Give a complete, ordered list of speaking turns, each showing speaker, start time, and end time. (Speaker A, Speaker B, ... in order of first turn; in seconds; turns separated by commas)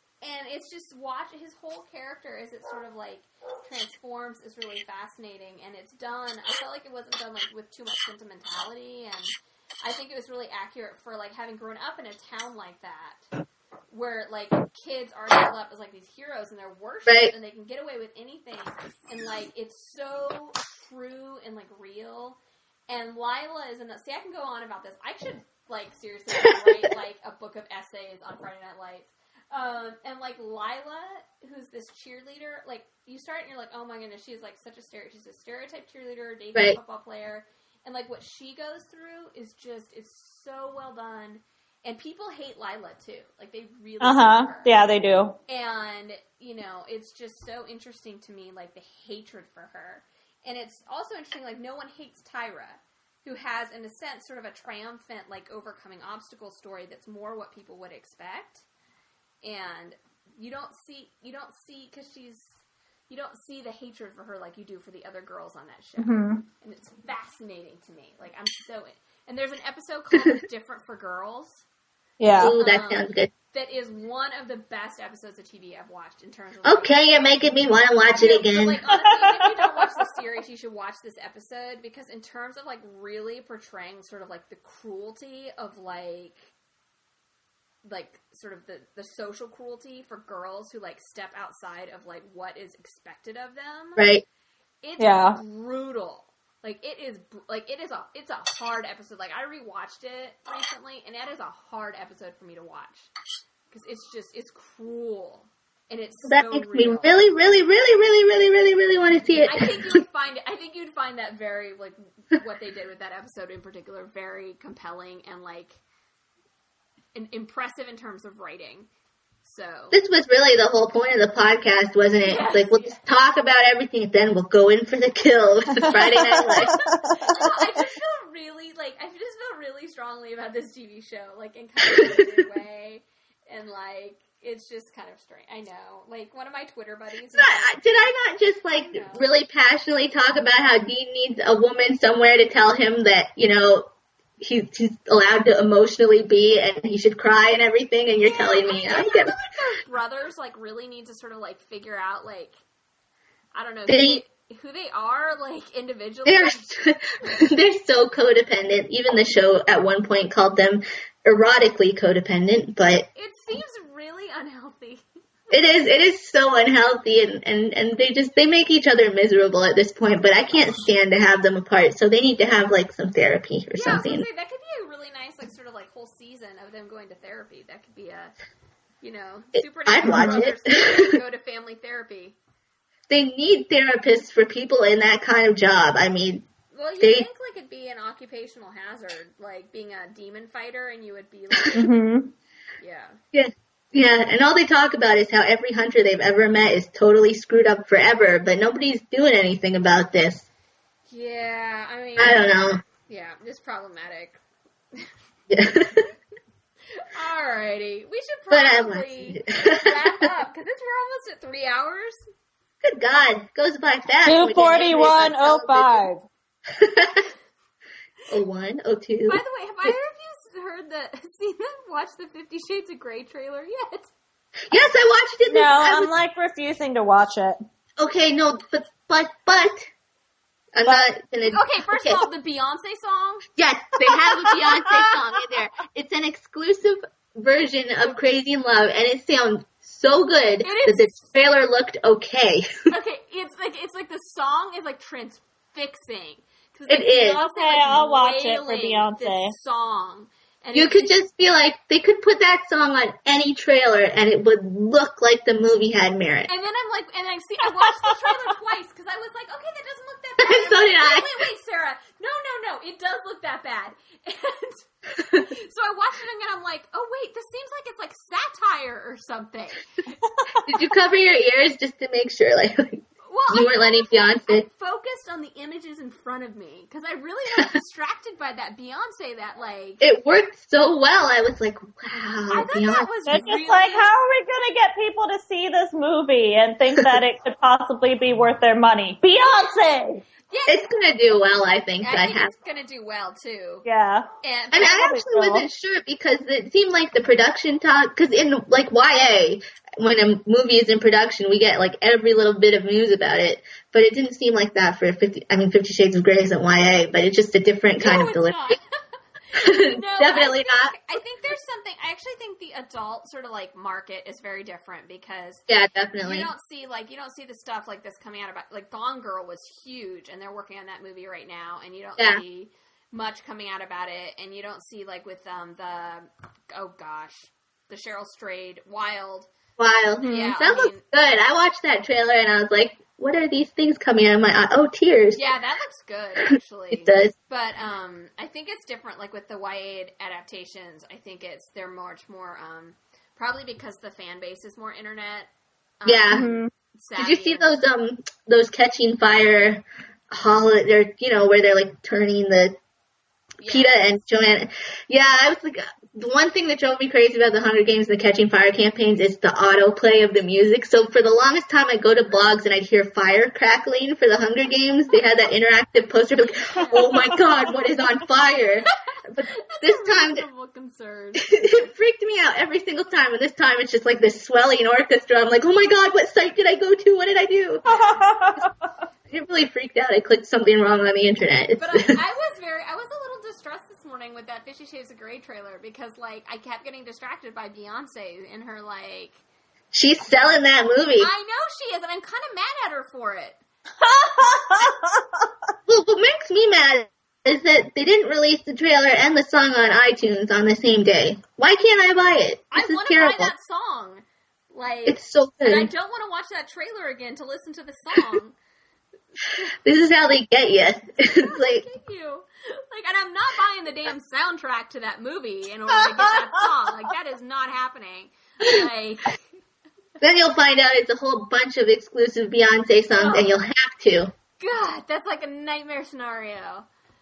Speaker A: 0.2-13.2, Speaker A: 13.9-22.4, Speaker B: 17.1-17.3, Speaker A: 22.9-44.8, Speaker B: 26.4-26.7, Speaker C: 44.0-45.4, Speaker A: 45.5-58.6, Speaker A: 59.4-71.6, Speaker C: 66.0-66.4, Speaker C: 72.2-72.5, Speaker B: 72.4-73.3, Speaker A: 72.4-77.0, Speaker B: 76.6-78.8, Speaker A: 78.2-86.5, Speaker C: 78.9-79.4, Speaker A: 87.8-94.1, Speaker B: 94.0-94.2, Speaker A: 94.8-103.1, Speaker C: 95.0-95.4, Speaker A: 103.7-107.2, Speaker B: 106.2-110.0, Speaker A: 109.4-115.8, Speaker A: 117.1-118.9, Speaker A: 119.4-120.0, Speaker B: 119.9-126.8, Speaker A: 122.2-123.0, Speaker C: 125.9-127.3, Speaker A: 126.6-137.8, Speaker B: 131.9-132.4, Speaker B: 137.3-143.9, Speaker A: 138.8-139.3, Speaker B: 144.4-149.3, Speaker A: 148.2-152.6, Speaker A: 153.5-156.7, Speaker B: 153.9-154.2, Speaker B: 156.2-163.1, Speaker A: 163.1-165.1, Speaker B: 165.5-174.2, Speaker A: 173.7-178.3, Speaker A: 179.0-182.4, Speaker B: 179.6-181.2, Speaker C: 180.1-180.4, Speaker B: 183.1-186.4, Speaker A: 186.7-191.9, Speaker B: 187.0-187.3, Speaker C: 191.7-192.3, Speaker A: 192.8-193.2, Speaker B: 193.3-200.5, Speaker A: 201.1-204.4, Speaker B: 202.2-202.8, Speaker B: 205.5-206.1, Speaker A: 207.0-212.2, Speaker B: 208.5-210.3, Speaker B: 212.8-216.1, Speaker C: 214.2-216.2, Speaker B: 216.7-217.3, Speaker B: 218.3-219.9, Speaker A: 219.3-224.1, Speaker B: 224.7-226.1, Speaker C: 225.5-227.6, Speaker B: 228.0-229.9, Speaker B: 230.7-232.2, Speaker A: 231.5-233.4, Speaker B: 233.6-242.7, Speaker A: 240.6-241.3, Speaker A: 242.9-251.1, Speaker B: 246.9-247.4, Speaker C: 247.3-249.5, Speaker B: 250.7-256.5, Speaker A: 256.5-269.9, Speaker B: 260.4-261.3, Speaker C: 270.3-270.7, Speaker B: 270.6-274.6, Speaker A: 273.2-280.0, Speaker B: 280.0-283.1, Speaker A: 282.5-284.1, Speaker C: 283.3-290.2, Speaker A: 290.5-290.9, Speaker B: 290.7-292.5, Speaker A: 292.0-293.8, Speaker C: 293.8-294.3, Speaker A: 294.4-295.1, Speaker B: 294.7-308.8, Speaker C: 294.9-295.7, Speaker A: 308.0-308.8, Speaker A: 309.5-315.7, Speaker B: 309.5-310.9, Speaker B: 315.7-316.5, Speaker A: 316.2-329.5, Speaker B: 329.8-335.4, Speaker C: 330.2-330.5, Speaker A: 330.2-331.0, Speaker A: 335.3-345.5, Speaker B: 336.9-337.3, Speaker A: 346.0-346.4, Speaker B: 346.0-346.5, Speaker C: 346.3-346.7, Speaker A: 347.0-347.7, Speaker B: 347.2-352.8, Speaker A: 353.6-354.2, Speaker B: 353.6-370.4, Speaker A: 366.7-367.3, Speaker A: 369.4-371.9, Speaker B: 371.4-377.8, Speaker A: 377.9-378.2, Speaker C: 377.9-378.7, Speaker B: 379.3-382.1, Speaker A: 381.8-389.4, Speaker B: 389.9-391.3, Speaker A: 391.2-393.6, Speaker C: 394.0-395.2, Speaker B: 395.9-403.5, Speaker A: 402.7-408.6, Speaker B: 405.1-405.9, Speaker B: 409.8-411.9, Speaker A: 411.2-419.4, Speaker B: 420.2-424.3, Speaker A: 423.1-423.5, Speaker A: 424.6-426.9